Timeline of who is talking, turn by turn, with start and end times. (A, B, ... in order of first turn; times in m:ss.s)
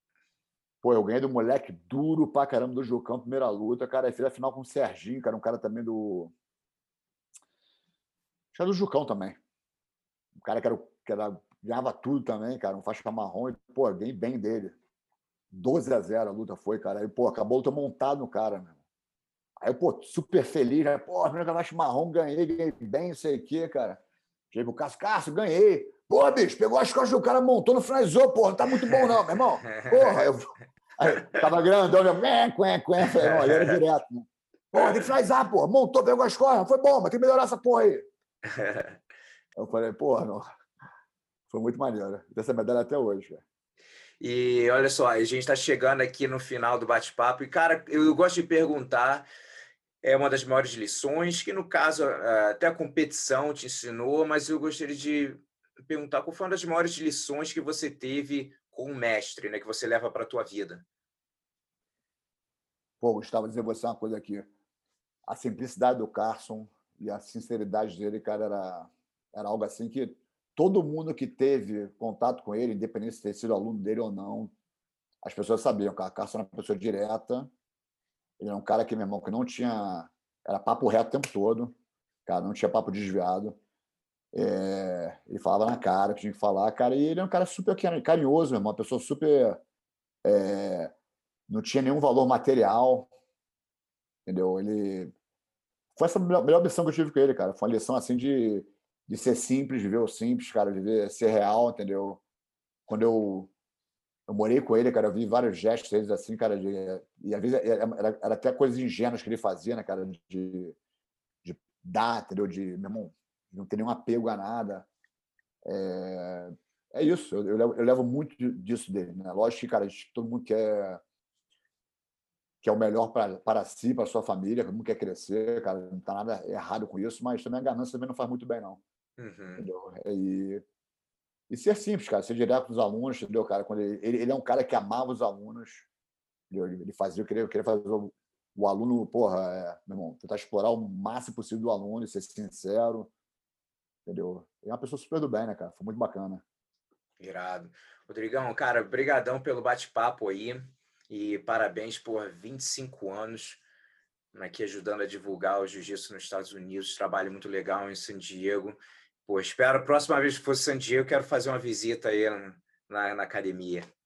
0:00.8-0:06.3 A
0:08.5-0:09.4 A
0:10.4-0:14.8 A
0:15.5-0:18.8 A
0:19.6-0:38.1 A
0:29.7-0:30.2 B
0:31.1-0:31.4 B
0:33.1-0:33.8 B
0:34.8-0:35.1 B
0:38.4-0:39.0 B
0:39.6-0:40.4 A
0:41.5-0:43.4 A
0:44.2-0:49.3 B
0:50.0-1:00.8 B
1:03.0-1:04.5 A
1:05.3-1:14.5 A
1:15.2-1:17.5 A
1:18.4-1:21.8 A
1:22.3-1:23.6 A
1:24.3-1:29.6 A
1:30.2-1:30.9 A
1:31.5-1:33.1 A
1:34.3-1:35.1 A
1:36.0-1:42.2 A
1:42.9-1:43.5 A
1:44.3-1:50.8 A
1:51.4-1:54.9 A
1:55.6-2:01.0 A
2:02.6-2:08.8 A
2:09.2-2:09.7 B
2:09.6-2:10.6 A
2:11.5-2:15.9 A
2:16.5-2:23.1 A
2:24.1-2:26.4 A
2:27.2-2:33.6 B
2:34.3-2:43.9 B